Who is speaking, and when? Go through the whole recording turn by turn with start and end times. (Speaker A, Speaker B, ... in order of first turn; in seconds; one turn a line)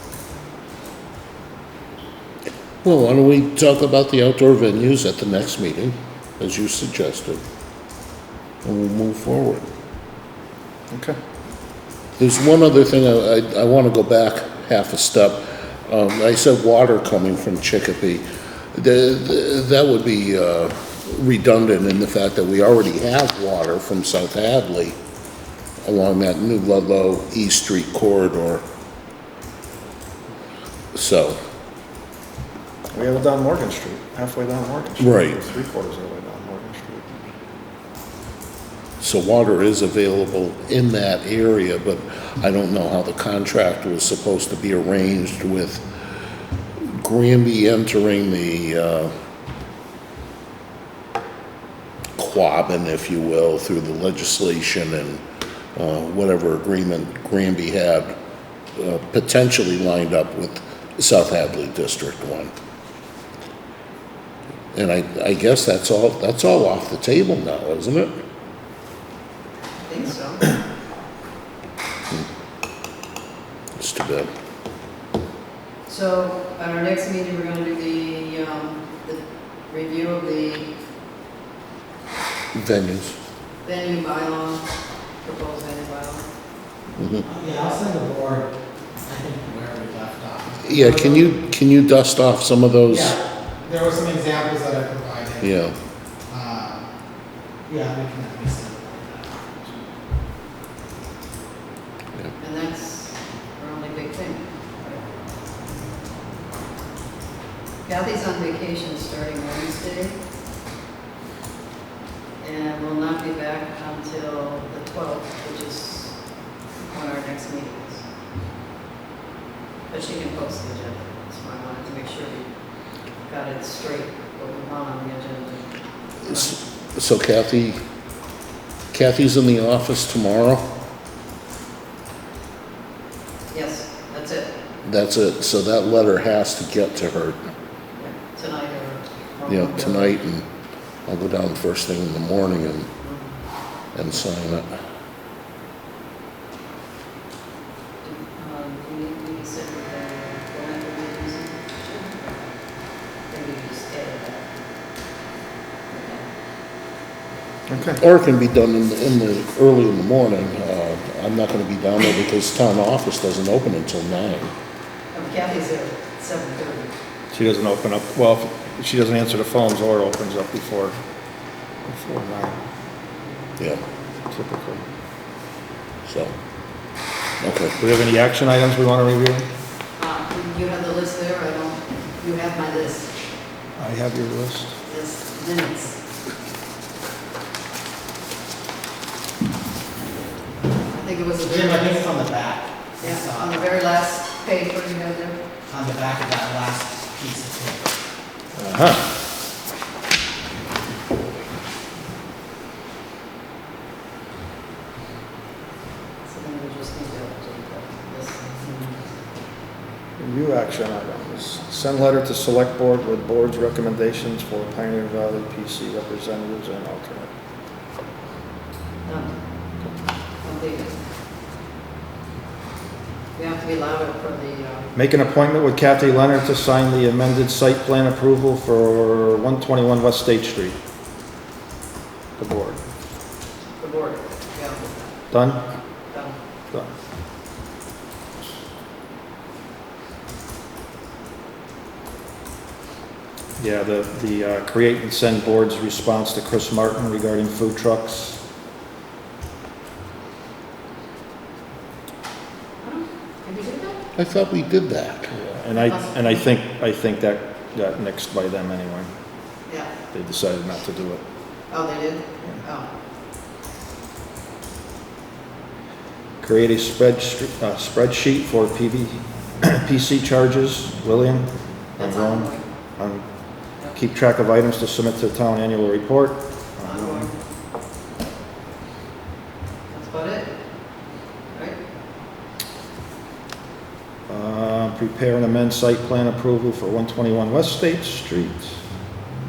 Speaker A: 2.8-7.4
Speaker A: 8.6-9.7
Speaker B: 10.9-11.2
Speaker A: 12.2-18.2
Speaker A: 18.7-25.0
Speaker A: 25.8-28.6
Speaker A: 30.9-31.4
Speaker B: 32.9-37.1
Speaker A: 35.0-35.4
Speaker A: 39.0-45.8
Speaker A: 47.0-49.1
Speaker A: 52.2-55.2
Speaker A: 55.8-58.1
Speaker A: 58.8-62.5
Speaker A: 64.7-68.1
Speaker C: 69.8-70.6
Speaker A: 73.8-74.3
Speaker C: 75.9-80.7
Speaker A: 82.5-83.2
Speaker C: 83.6-84.7
Speaker C: 85.2-86.2
Speaker A: 87.0-87.2
Speaker D: 87.2-88.5
Speaker D: 89.0-91.4
Speaker A: 90.7-93.2
Speaker D: 92.8-95.7
Speaker A: 95.4-95.8
Speaker D: 96.3-96.8
Speaker D: 97.7-99.8
Speaker C: 102.4-105.0
Speaker C: 107.8-110.2
Speaker C: 112.4-116.1
Speaker C: 116.8-118.0
Speaker C: 119.9-122.5
Speaker C: 123.3-125.7
Speaker C: 126.2-126.6
Speaker A: 126.3-127.8
Speaker A: 128.9-130.7
Speaker C: 133.5-134.6
Speaker A: 134.8-137.4
Speaker C: 138.0-140.2
Speaker A: 139.5-140.4
Speaker A: 141.1-142.9
Speaker C: 143.0-143.3
Speaker A: 143.9-144.7
Speaker C: 148.0-152.6
Speaker C: 153.3-154.5
Speaker C: 155.9-156.3
Speaker B: 157.7-158.0
Speaker A: 157.9-164.5
Speaker C: 165.1-166.9
Speaker B: 167.3-171.0
Speaker B: 171.9-172.6
Speaker B: 174.3-174.9
Speaker A: 176.1-176.3
Speaker A: 177.4-177.8
Speaker B: 177.8-179.5
Speaker C: 180.0-183.1
Speaker B: 183.8-184.8
Speaker C: 184.9-186.0
Speaker C: 190.9-192.0
Speaker D: 191.4-193.8
Speaker C: 193.0-195.4
Speaker D: 195.7-197.9
Speaker B: 198.6-199.1
Speaker C: 206.2-209.0
Speaker B: 210.2-217.3
Speaker C: 219.1-219.4
Speaker C: 220.4-221.0
Speaker C: 223.4-224.9
Speaker B: 224.9-230.8
Speaker B: 232.4-232.8
Speaker C: 233.8-235.1
Speaker B: 235.3-235.6
Speaker C: 236.1-236.4
Speaker B: 243.6-248.4
Speaker C: 252.8-254.0
Speaker A: 254.2-255.3
Speaker B: 255.3-259.1
Speaker C: 255.8-256.1
Speaker C: 259.7-259.9
Speaker B: 260.1-261.2
Speaker C: 261.7-262.9
Speaker B: 266.4-273.2
Speaker C: 272.0-272.6
Speaker B: 273.9-277.3
Speaker C: 276.8-277.3
Speaker C: 279.9-280.5
Speaker C: 281.5-281.8
Speaker B: 284.3-288.8